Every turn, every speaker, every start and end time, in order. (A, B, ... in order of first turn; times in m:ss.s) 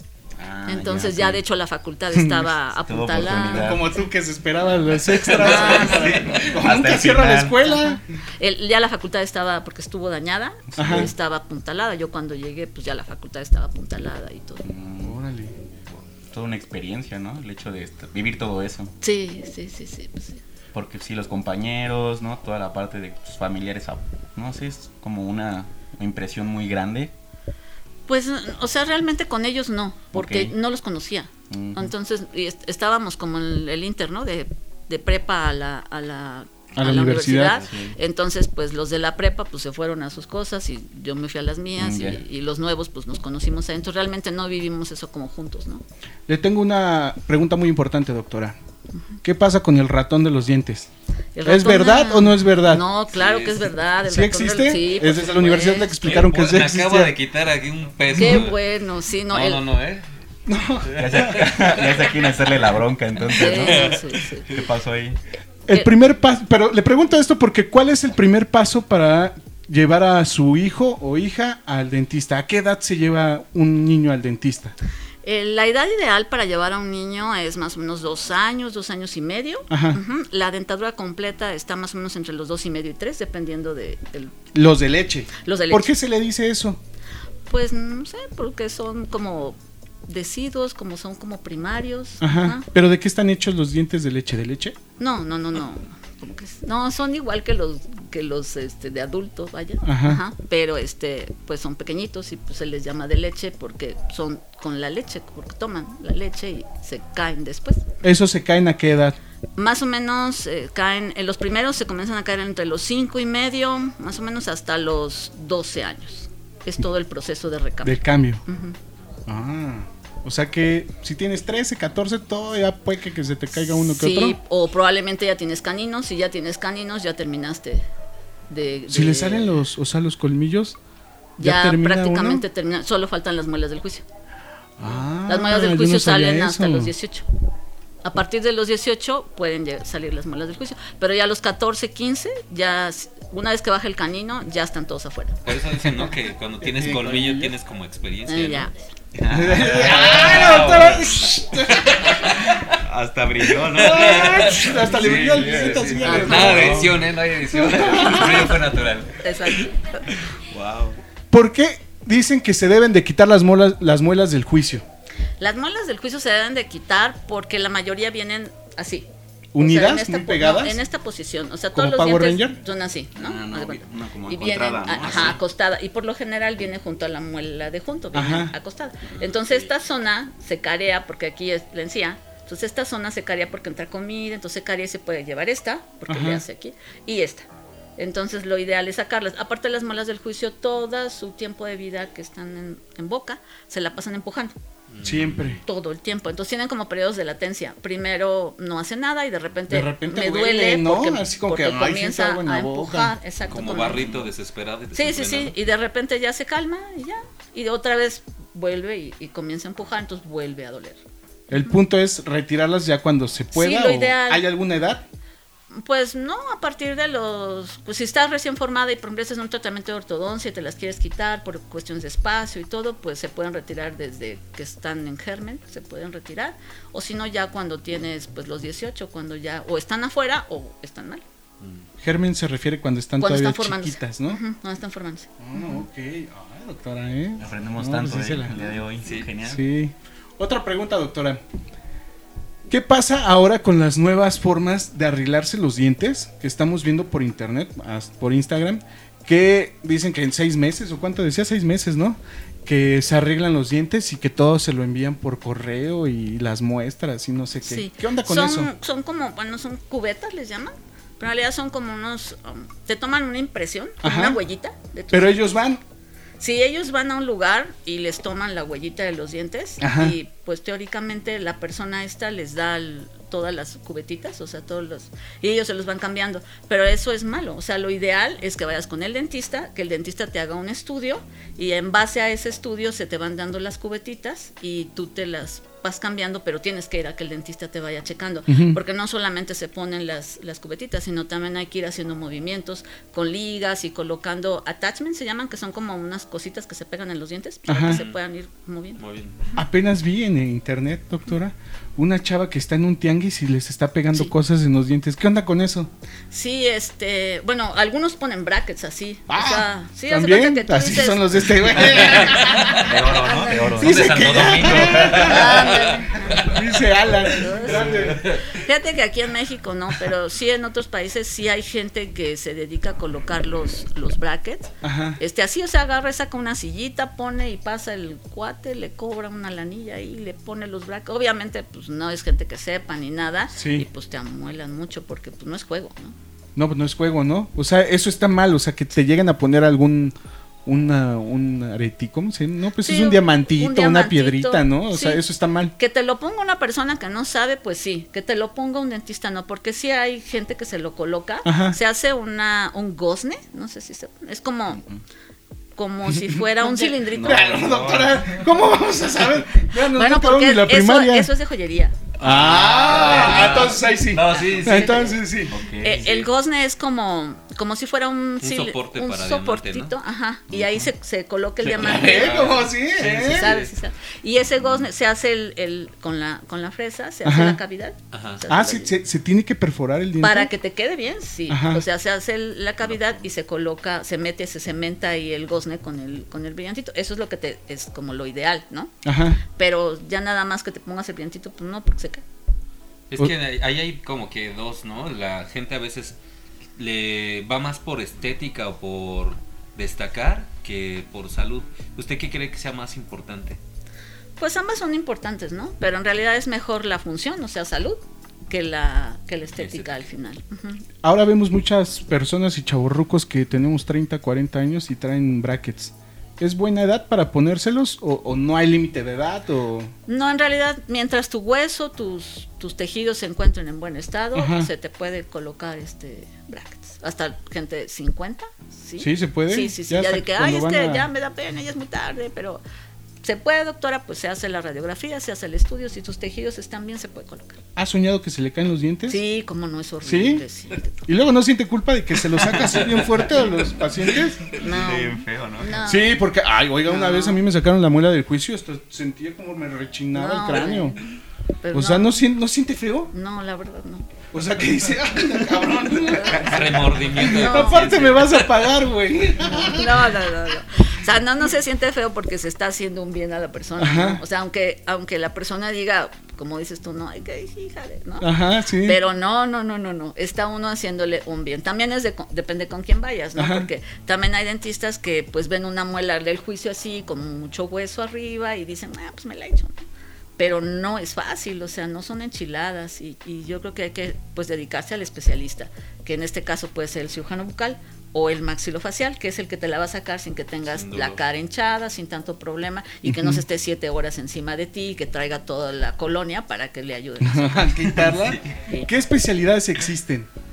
0:00.4-0:01.4 A
0:00.6-0:03.8 B
0:02.1-0:02.5 C
0:02.8-0:03.9 A
0:03.5-0:08.0 C
0:05.2-0:06.3 D
0:05.4-0:06.2 B
0:05.5-0:07.6 A
0:07.6-0:14.6 B
0:10.7-0:11.1 A
0:10.8-0:11.1 C
0:14.6-0:15.2 A
0:15.0-0:15.5 C
0:16.3-0:18.9 A
0:19.0-0:20.4 B
0:20.7-0:27.1 A
0:28.1-0:45.8 B
0:30.1-0:30.5 A
0:31.5-0:31.9 A
0:36.8-0:37.6 C
0:37.6-0:38.0 A
0:41.8-0:42.2 A
0:46.3-0:48.6 C
0:49.2-0:50.9 C
0:51.4-0:56.2 B
0:51.4-0:52.8 C
0:53.1-0:53.7 D
0:54.0-0:57.1 C
0:56.0-0:58.6 D
0:58.2-0:59.6 B
0:58.2-0:58.4 C
0:59.3-1:00.0 D
1:00.5-1:01.4 C
1:00.8-1:02.5 D
1:00.9-1:05.2 A
1:03.3-1:04.5 B
1:03.3-1:04.2 D
1:05.7-1:14.7 C
1:15.2-1:24.3 B
1:19.7-1:20.0 C
1:24.5-1:26.8 C
1:25.4-1:25.9 B
1:27.5-1:32.6 B
1:32.2-1:34.8 C
1:35.0-1:47.8 B
1:39.8-1:40.2 C
1:48.0-1:49.2 C
1:49.6-1:58.8 B
1:57.8-1:58.4 C
1:59.3-2:04.4 C
2:03.6-2:07.8 B
2:08.5-2:09.6 B
2:08.9-2:10.8 C
2:11.4-2:14.0 B
2:11.4-2:12.4 C
2:14.8-2:16.9 C
2:15.2-2:17.3 B
2:18.0-2:25.5 B
2:25.4-2:28.7 D
2:25.8-2:26.1 C
2:26.6-2:27.5 C
2:28.3-2:28.9 B
2:29.1-2:31.0 A
2:29.3-2:32.1 C
2:29.6-2:31.1 D
2:31.7-2:32.8 D
2:32.7-2:37.0 A
2:33.6-2:39.7 D
2:33.7-2:37.0 C
2:36.0-2:36.7 B
2:37.5-2:38.6 C
2:38.0-2:38.6 B
2:39.2-2:39.8 B
2:40.5-2:41.0 A
2:41.3-2:44.8 C
2:45.4-3:14.5 B
2:49.5-2:50.8 C
2:51.7-2:52.6 C
2:53.2-2:55.4 A
2:55.0-2:55.3 D
2:58.1-2:58.5 C
3:06.1-3:06.4 C
3:14.9-3:15.6 D
3:15.0-3:15.6 C
3:15.6-3:24.3 B
3:19.7-3:23.1 C
3:23.5-3:25.6 D
3:24.9-3:31.0 B
3:31.5-3:35.0 C
3:33.5-3:34.4 B
3:35.7-3:51.2 B
3:51.6-3:51.9 D
3:52.0-3:54.4 C
3:53.2-3:55.8 B
3:55.4-3:58.7 C
3:57.4-3:59.6 A
3:59.0-3:59.3 D
3:59.4-4:01.4 C
4:02.7-4:18.7 C
4:17.6-4:25.6 B
4:24.0-4:24.4 C
4:25.1-4:25.8 C
4:26.4-4:59.0 B
4:29.8-4:30.2 C
4:48.5-4:48.8 C
4:57.7-4:58.0 C
4:57.8-4:58.2 D
4:59.0-4:59.4 D
4:59.6-5:05.9 C
5:06.3-5:13.7 B
5:09.3-5:12.9 C
5:11.9-5:16.6 D
5:12.8-5:15.7 A
5:13.6-5:18.3 C
5:15.1-5:16.5 B
5:17.3-5:36.2 B
5:17.5-5:18.6 D
5:24.8-5:25.2 C
5:33.6-5:33.9 C
5:36.6-5:40.1 C
5:40.6-5:45.7 C
5:42.8-5:45.2 B
5:45.8-5:54.8 B
5:51.4-5:51.8 C
5:55.8-5:57.6 B
5:56.2-6:01.3 C
5:57.1-5:58.3 A
5:59.8-6:02.0 B
6:02.2-6:05.0 D
6:02.2-6:05.6 C
6:02.4-6:03.7 A
6:04.3-6:05.2 B
6:05.5-6:06.2 A
6:05.7-6:19.0 B
6:08.4-6:09.9 D
6:10.5-6:10.8 A
6:11.6-6:13.7 D
6:11.7-6:13.6 C
6:17.2-6:17.6 C
6:18.1-6:18.4 D
6:18.5-6:20.5 C
6:20.2-6:28.9 B
6:21.5-6:21.8 C
6:22.9-6:23.2 D
6:29.0-6:29.4 C
6:29.5-6:32.2 B
6:33.1-6:36.2 D
6:36.8-6:43.6 D
6:44.4-6:50.8 B
6:49.6-6:49.9 D
6:51.0-6:59.9 C
7:00.1-7:12.6 B
7:04.3-7:04.7 C
7:09.0-7:11.1 C
7:13.2-7:17.6 B
7:17.8-7:19.2 C
7:19.1-7:21.0 B
7:20.0-7:20.4 C
7:21.0-7:24.5 C
7:22.3-7:24.2 D
7:24.5-7:26.2 B
7:24.6-7:25.8 A
7:25.8-7:31.0 C
7:26.8-7:27.4 B
7:30.1-7:32.2 B
7:31.7-7:33.1 C
7:33.1-7:34.1 B
7:34.3-7:40.1 C
7:36.2-7:38.8 D
7:36.2-7:36.5 B
7:37.2-7:38.0 B
7:39.5-7:48.3 B
7:43.8-7:44.2 C
7:48.2-7:49.0 C
7:48.8-7:59.8 B
7:53.4-7:53.7 C
8:00.4-8:18.1 B
8:10.7-8:11.2 D
8:13.0-8:13.4 C
8:17.2-8:20.3 C
8:18.1-8:18.4 A
8:18.6-8:18.9 B